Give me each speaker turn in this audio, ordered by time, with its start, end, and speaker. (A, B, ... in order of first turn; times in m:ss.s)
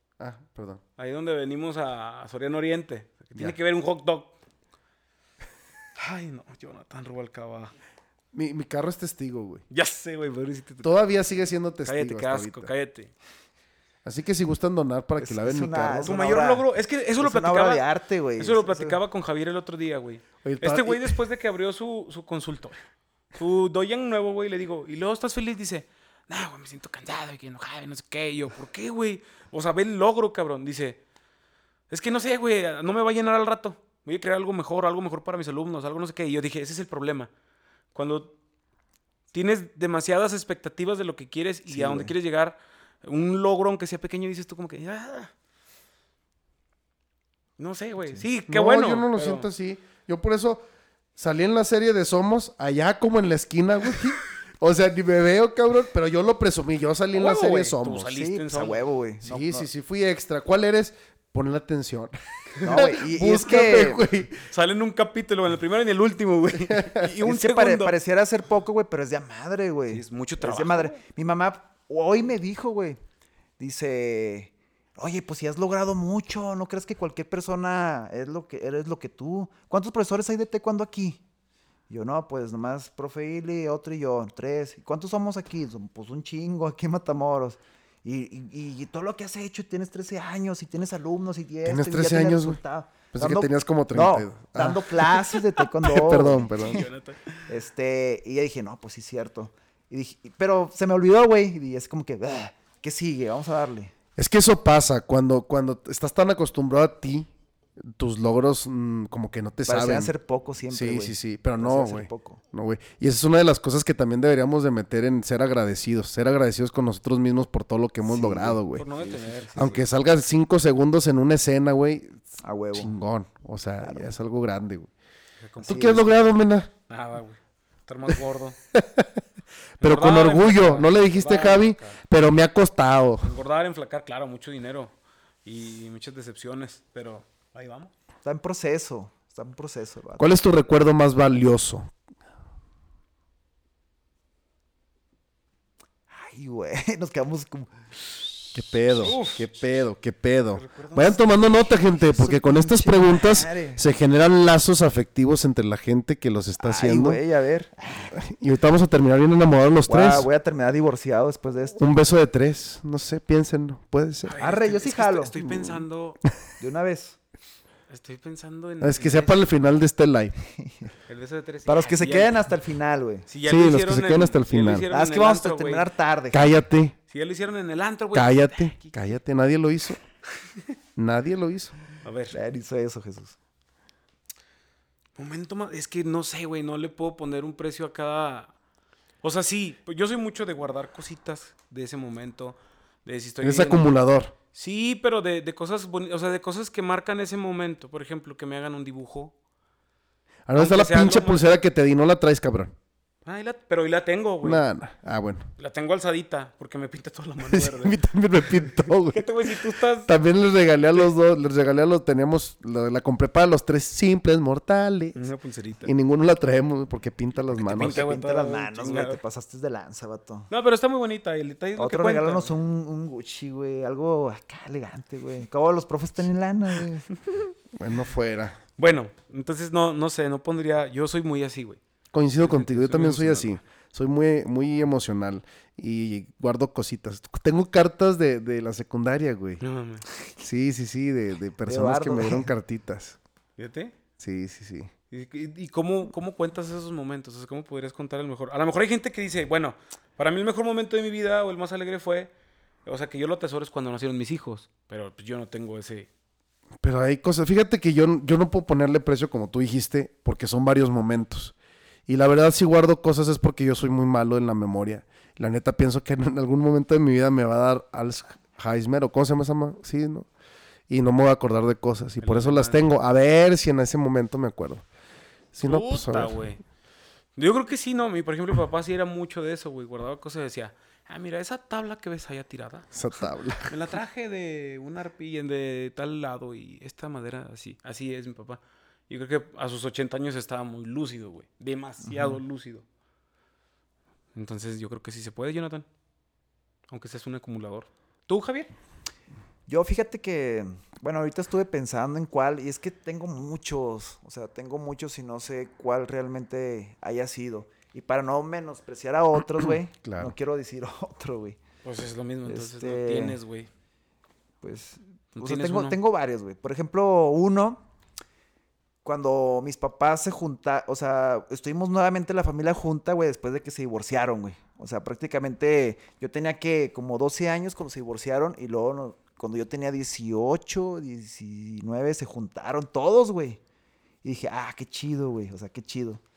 0:00.2-0:00.8 A
0:01.0-0:04.4 B
0:06.0-0:07.7 B
0:08.3-0:09.6 A
0:09.7-0:10.9 B
0:10.8-0:12.7 A
0:11.8-0:13.1 B
0:14.0-0:16.1 A
0:15.2-0:16.7 C
0:16.0-0:17.8 B
0:17.2-0:19.0 C
0:18.4-0:22.8 B
0:20.4-0:21.2 A
0:23.4-0:31.0 B
0:31.9-0:37.3 B
0:37.9-0:38.4 B
0:39.3-0:45.3 B
0:41.7-0:42.1 A
0:47.6-0:49.5 B
0:48.5-0:50.6 A
0:51.2-0:58.1 A
0:57.1-0:58.8 B
0:58.1-0:59.7 C
0:59.2-1:04.4 A
1:02.6-1:04.0 C
1:04.5-1:08.0 B
1:06.7-1:07.1 A
1:07.2-1:13.0 C
1:09.9-1:11.0 B
1:13.6-1:21.2 C
1:21.9-1:36.8 C
1:31.6-1:32.6 A
1:33.1-1:35.2 A
1:35.8-1:36.9 A
1:36.5-1:37.5 B
1:37.5-1:43.9 C
1:44.2-1:47.3 A
1:47.8-1:50.1 A
1:49.6-1:52.4 C
1:50.7-1:58.9 A
1:58.0-1:59.8 C
1:58.7-1:59.8 B
1:59.6-2:04.9 A
2:02.4-2:02.9 C
2:03.8-2:04.1 C
2:05.4-2:06.2 B
2:05.6-2:06.7 A
2:05.7-2:06.2 C
2:06.9-2:08.6 B
2:08.7-2:09.1 A
2:09.8-2:12.0 B
2:09.8-2:13.3 A
2:13.2-2:17.9 B
2:18.2-2:20.3 C
2:20.2-2:21.9 A
2:26.1-2:28.3 C
2:28.5-2:37.2 A
2:29.0-2:29.5 B
2:30.6-2:31.2 B
2:31.7-2:33.8 C
2:36.6-2:38.1 C
2:38.1-2:40.3 A
2:39.9-2:41.8 C
2:41.8-2:44.4 A
2:44.2-2:46.2 B
2:44.4-2:45.4 C
2:45.4-2:45.8 A
2:46.6-2:47.2 C
2:47.9-2:49.5 B
2:48.8-2:50.4 A
2:50.5-2:50.9 C
2:51.1-2:52.4 B
2:51.6-2:53.3 C
2:53.3-2:55.9 B
2:53.4-2:54.9 A
2:54.9-2:56.5 C
2:56.3-2:57.0 A
2:57.1-2:59.1 B
2:58.1-3:00.0 A
3:01.0-3:01.8 A
3:02.0-3:02.4 B
3:02.3-3:03.4 C
3:05.2-3:08.5 B
3:09.2-3:13.9 B
3:13.4-3:14.3 A
3:14.5-3:19.3 B
3:20.5-3:22.7 A
3:20.6-3:21.5 B
3:23.3-3:24.6 B
3:24.4-3:25.5 A
3:25.6-3:28.0 B
3:27.5-3:29.3 A
3:28.9-3:30.1 B
3:30.1-3:35.2 A
3:35.1-3:35.9 B
3:35.8-3:38.1 A
3:37.5-3:39.2 B
3:37.8-3:40.5 C
3:40.5-3:42.5 B
3:41.8-3:47.1 C
3:47.8-3:48.6 A
3:48.8-3:51.8 B
3:52.1-3:59.6 A
3:52.4-3:53.6 B
3:59.6-4:00.0 B
4:00.4-4:03.2 A
4:01.6-4:02.5 C
4:03.6-4:03.9 B
4:04.2-4:04.9 A
4:05.1-4:12.3 B
4:12.9-4:16.1 B
4:16.8-4:21.5 A
4:22.1-4:30.3 A
4:30.9-4:34.8 A
4:32.2-4:32.9 B
4:35.5-4:36.4 A
4:35.6-4:36.6 B
4:37.4-4:42.9 B
4:42.9-4:43.7 A
4:43.6-4:52.8 B
4:52.1-4:52.4 C
4:54.4-4:55.9 B
4:56.9-4:58.7 B
4:59.7-5:11.6 C
5:09.9-5:10.3 A
5:11.8-5:13.7 B
5:12.5-5:13.4 C
5:14.6-5:17.8 C
5:15.4-5:16.0 B
5:19.0-5:33.6 C
5:34.2-5:36.2 C